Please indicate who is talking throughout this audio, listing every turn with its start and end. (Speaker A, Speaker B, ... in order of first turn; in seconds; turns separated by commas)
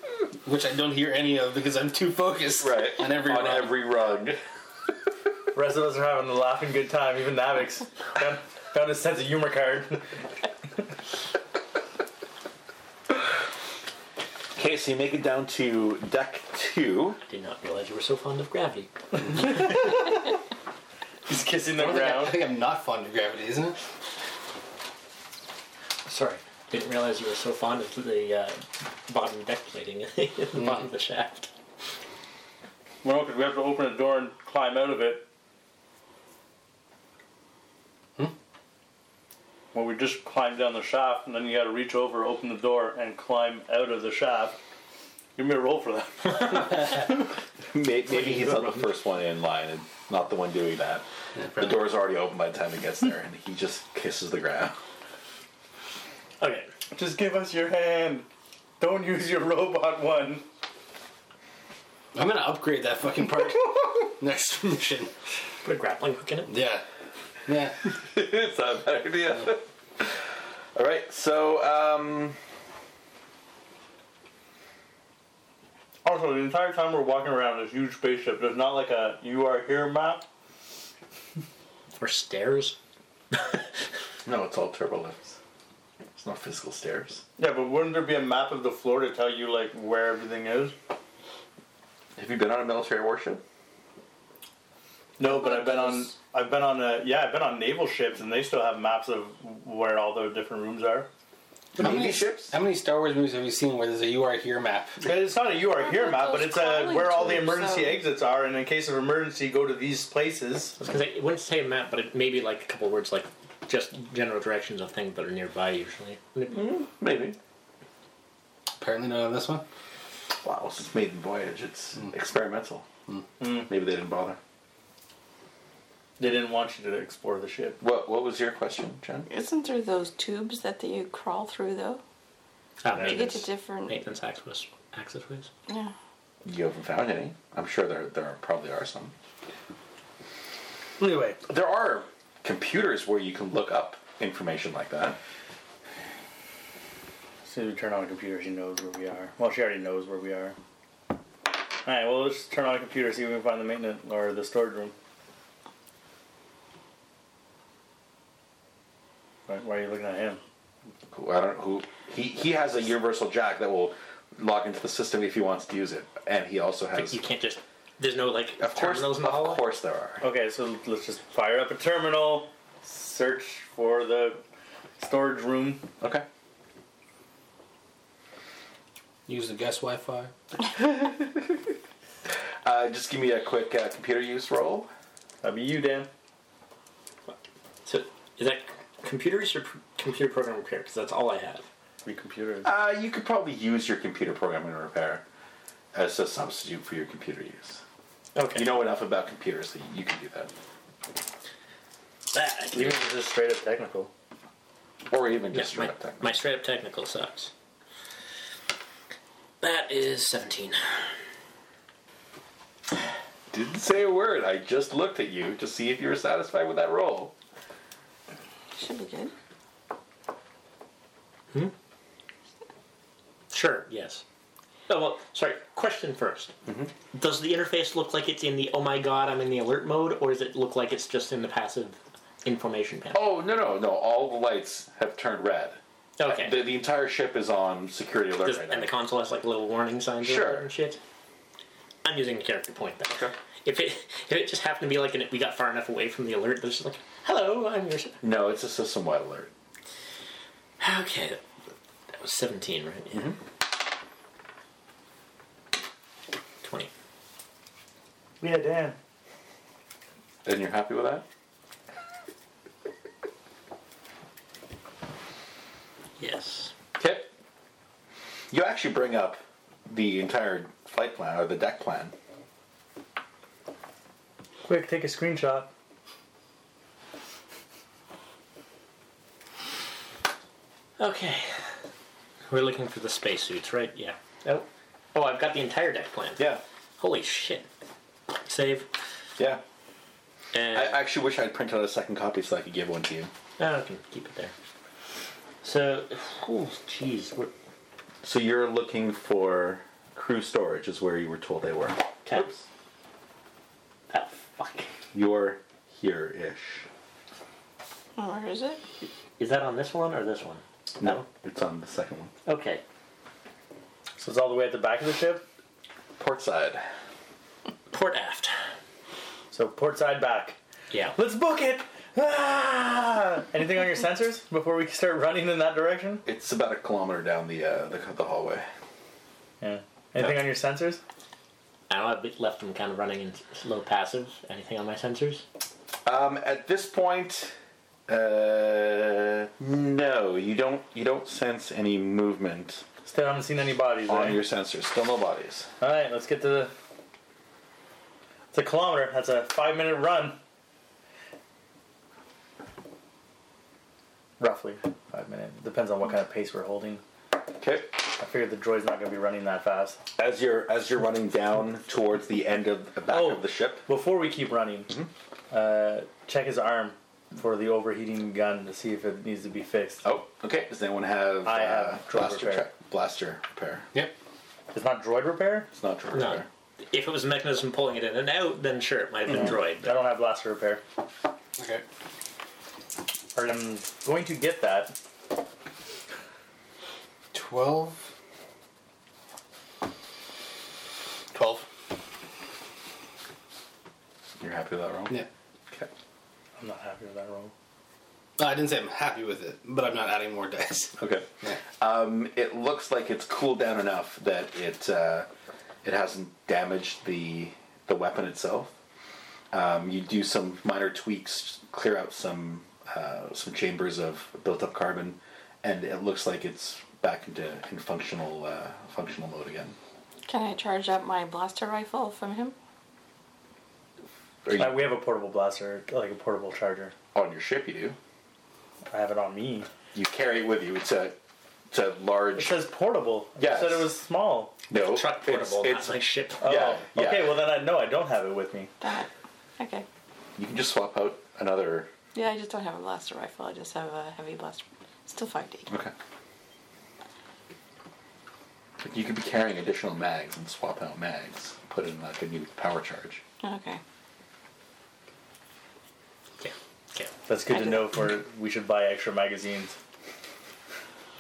Speaker A: 0.5-3.8, Speaker B: 2.6-4.4, Speaker C: 5.5-10.1, Speaker B: 14.6-17.2, Speaker D: 17.3-19.6, Speaker C: 19.3-20.2, Speaker C: 21.3-22.5, Speaker A: 21.7-23.8, Speaker D: 26.1-31.5, Speaker A: 30.6-30.9, Speaker C: 33.0-35.3, Speaker C: 39.7-44.6, Speaker C: 45.4-47.0, Speaker B: 47.7-51.0, Speaker D: 48.1-48.9, Speaker A: 51.4-51.8, Speaker B: 51.6-54.8, Speaker D: 56.4-56.7, Speaker C: 56.9-58.3, Speaker C: 58.8-60.5, Speaker A: 62.1-65.1, Speaker D: 65.6-66.5, Speaker A: 66.5-66.8, Speaker A: 67.5-67.9, Speaker B: 68.0-72.4, Speaker C: 76.0-80.2, Speaker D: 82.0-82.8, Speaker D: 83.3-83.7, Speaker B: 84.2-85.4, Speaker B: 86.2-87.2, Speaker C: 87.4-90.8, Speaker B: 92.2-93.4, Speaker C: 95.2-101.1, Speaker E: 95.2-96.1, Speaker B: 101.8-102.6, Speaker A: 101.8-105.0, Speaker C: 105.0-110.8, Speaker E: 105.8-108.0, Speaker D: 110.8-116.6, Speaker B: 116.5-117.4, Speaker A: 118.8-119.6, Speaker B: 120.3-122.8, Speaker C: 123.4-123.7, Speaker B: 123.5-124.4, Speaker C: 126.2-127.8, Speaker B: 127.8-129.3, Speaker E: 129.3-132.0, Speaker D: 132.8-135.5, Speaker C: 132.9-133.3, Speaker E: 133.0-134.0, Speaker E: 135.7-135.9, Speaker B: 136.4-139.1, Speaker C: 141.0-141.4, Speaker B: 141.4-145.2, Speaker C: 147.4-150.6, Speaker C: 151.8-154.9, Speaker C: 159.5-160.4, Speaker B: 161.1-167.2, Speaker D: 167.0-169.6, Speaker B: 168.6-170.2, Speaker C: 170.2-174.4, Speaker C: 175.0-175.8, Speaker B: 176.0-176.3, Speaker A: 179.3-180.3, Speaker B: 180.7-181.5, Speaker B: 182.7-184.9, Speaker C: 185.4-186.1, Speaker D: 187.8-191.7, Speaker C: 192.1-192.7, Speaker B: 192.6-195.2, Speaker B: 195.9-197.8, Speaker D: 198.3-198.8, Speaker B: 198.6-200.5, Speaker D: 202.3-203.0, Speaker C: 202.6-204.1, Speaker B: 205.1-206.4, Speaker D: 205.5-207.5, Speaker D: 209.6-211.1, Speaker B: 213.5-217.3, Speaker E: 218.8-219.3, Speaker D: 223.5-224.2, Speaker D: 224.9-226.5, Speaker B: 226.7-226.9, Speaker D: 227.1-233.3, Speaker B: 233.1-238.9, Speaker D: 236.2-236.6, Speaker D: 238.4-241.0, Speaker B: 240.2-240.7, Speaker D: 242.1-248.2, Speaker B: 243.1-243.3, Speaker B: 248.2-249.5, Speaker D: 250.8-251.4, Speaker D: 252.2-253.3, Speaker B: 253.1-253.4, Speaker D: 256.6-256.9, Speaker C: 258.4-259.0, Speaker B: 260.4-261.2, Speaker D: 266.2-266.7, Speaker B: 267.0-267.3, Speaker B: 268.5-272.1, Speaker C: 274.6-275.7, Speaker D: 281.0-281.5, Speaker D: 282.5-287.7, Speaker D: 288.4-288.9, Speaker D: 290.5-291.0, Speaker B: 290.7-293.3, Speaker D: 293.6-294.5, Speaker D: 295.6-297.5, Speaker B: 298.2-302.6, Speaker D: 302.2-302.5, Speaker D: 304.1-304.9, Speaker B: 305.1-306.9, Speaker E: 308.2-308.8, Speaker D: 309.4-311.2, Speaker B: 311.0-312.3, Speaker D: 312.4-312.8, Speaker C: 314.2-315.5, Speaker B: 316.2-316.8, Speaker D: 317.9-318.6, Speaker C: 319.5-320.6, Speaker C: 321.1-326.2, Speaker B: 326.2-328.7, Speaker C: 329.6-331.0, Speaker D: 331.9-335.4, Speaker B: 336.1-337.6, Speaker B: 338.1-342.8, Speaker C: 343.1-344.4, Speaker B: 344.1-345.7, Speaker C: 345.8-346.7, Speaker C: 348.5-350.4, Speaker C: 354.4-357.0, Speaker B: 357.6-357.9, Speaker C: 358.2-360.0, Speaker B: 360.2-363.9, Speaker C: 363.1-364.9, Speaker C: 365.5-370.0, Speaker B: 370.0-373.9, Speaker C: 371.4-372.7, Speaker C: 374.7-375.7, Speaker B: 375.7-376.5, Speaker D: 376.1-379.9, Speaker C: 379.3-380.8, Speaker A: 381.6-381.8, Speaker C: 383.4-385.0, Speaker A: 387.3-388.0, Speaker A: 391.3-391.7, Speaker B: 394.4-395.2, Speaker C: 396.6-397.5, Speaker A: 398.4-401.6, Speaker B: 401.0-405.3, Speaker B: 405.8-408.7, Speaker B: 409.5-419.8, Speaker E: 420.3-422.6, Speaker B: 424.5-424.9, Speaker C: 424.5-426.9, Speaker B: 427.1-428.0, Speaker C: 428.9-429.7, Speaker B: 429.9-431.2, Speaker B: 431.7-432.6, Speaker C: 432.3-434.5, Speaker B: 433.4-433.9, Speaker B: 434.7-437.5, Speaker D: 434.7-436.4, Speaker C: 436.4-438.7, Speaker E: 438.8-439.9, Speaker B: 440.4-441.9, Speaker E: 442.1-445.7, Speaker B: 448.8-453.2, Speaker E: 453.4-453.8, Speaker D: 456.4-457.1, Speaker C: 457.3-459.8, Speaker E: 457.5-457.9